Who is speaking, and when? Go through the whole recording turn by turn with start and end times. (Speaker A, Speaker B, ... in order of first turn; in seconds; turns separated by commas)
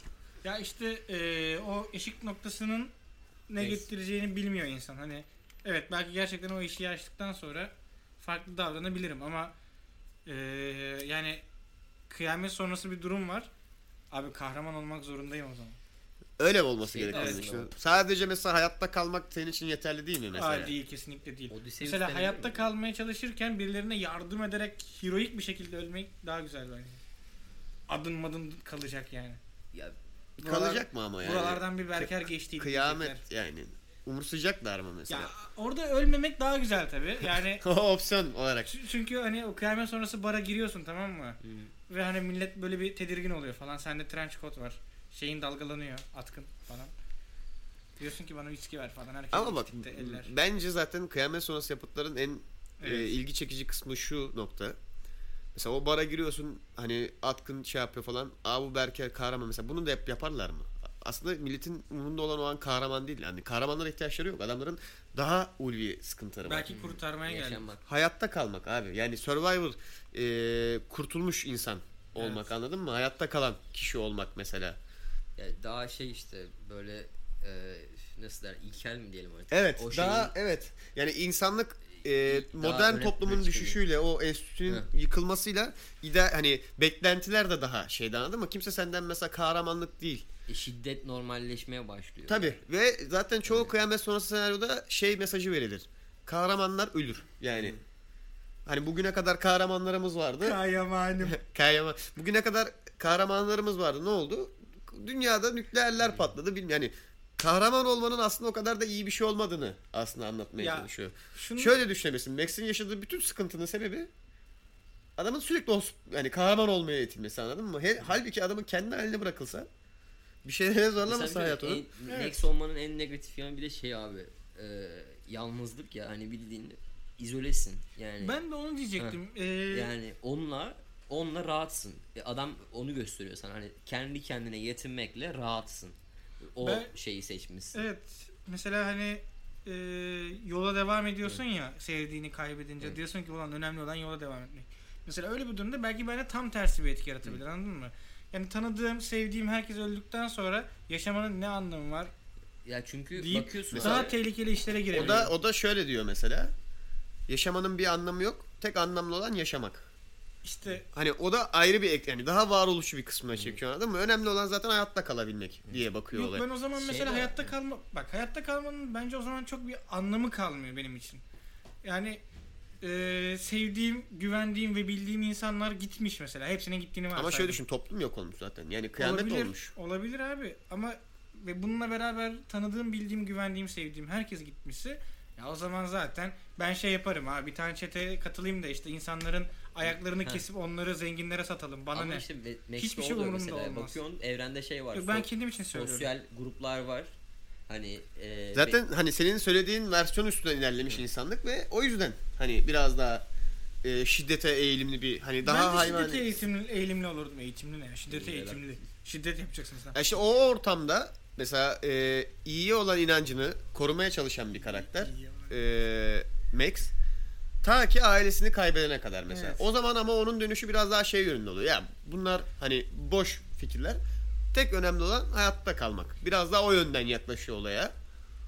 Speaker A: 0.4-2.9, Speaker A: 3.5-9.6, Speaker B: 3.6-3.9, Speaker A: 10.3-11.4, Speaker A: 12.1-13.5, Speaker A: 14.1-15.8, Speaker C: 16.4-20.7, Speaker B: 16.8-18.0, Speaker A: 17.1-17.4, Speaker A: 20.4-27.0, Speaker B: 21.5-22.7, Speaker A: 27.9-29.4, Speaker C: 30.4-35.3, Speaker A: 30.4-33.2, Speaker A: 35.1-37.6, Speaker C: 37.6-38.7, Speaker A: 38.7-46.9, Speaker B: 41.4-41.7, Speaker A: 48.0-50.3, Speaker C: 49.3-54.8, Speaker A: 52.8-53.2, Speaker C: 55.5-66.7, Speaker A: 66.4-67.7, Speaker B: 66.7-67.8, Speaker C: 67.8-74.8, Speaker A: 72.2-72.5, Speaker B: 75.4-80.4, Speaker C: 79.5-90.3, Speaker B: 82.0-83.8, Speaker B: 90.5-92.6, Speaker C: 92.3-97.8, Speaker B: 93.5-93.7, Speaker B: 97.5-97.8, Speaker C: 98.7-100.6, Speaker A: 100.4-101.4, Speaker C: 101.2-114.1, Speaker B: 106.0-106.3, Speaker A: 110.6-111.7, Speaker C: 115.2-119.7, Speaker C: 120.4-121.8, Speaker B: 121.0-128.4, Speaker A: 122.1-122.4, Speaker A: 128.2-129.9, Speaker B: 129.0-136.0, Speaker B: 136.5-137.9, Speaker A: 136.6-136.9, Speaker A: 137.7-152.1, Speaker B: 152.7-154.2, Speaker A: 153.2-155.3, Speaker C: 153.7-154.1, Speaker B: 154.9-155.3, Speaker C: 154.9-156.5, Speaker C: 157.3-159.9, Speaker A: 160.4-160.9, Speaker C: 160.9-166.4, Speaker B: 163.3-163.6, Speaker A: 166.1-171.2, Speaker B: 166.8-167.5, Speaker A: 171.8-172.2, Speaker A: 172.8-177.6, Speaker C: 177.2-179.7, Speaker A: 179.0-192.2, Speaker B: 189.8-190.4, Speaker B: 191.9-197.1, Speaker A: 192.8-194.0, Speaker A: 194.9-196.1, Speaker B: 197.7-198.8, Speaker C: 198.6-203.2, Speaker C: 203.8-206.3, Speaker A: 205.4-210.0, Speaker B: 208.1-208.7, Speaker C: 209.9-216.9, Speaker A: 214.6-215.6, Speaker C: 217.6-224.0, Speaker A: 219.3-219.6, Speaker C: 224.5-227.9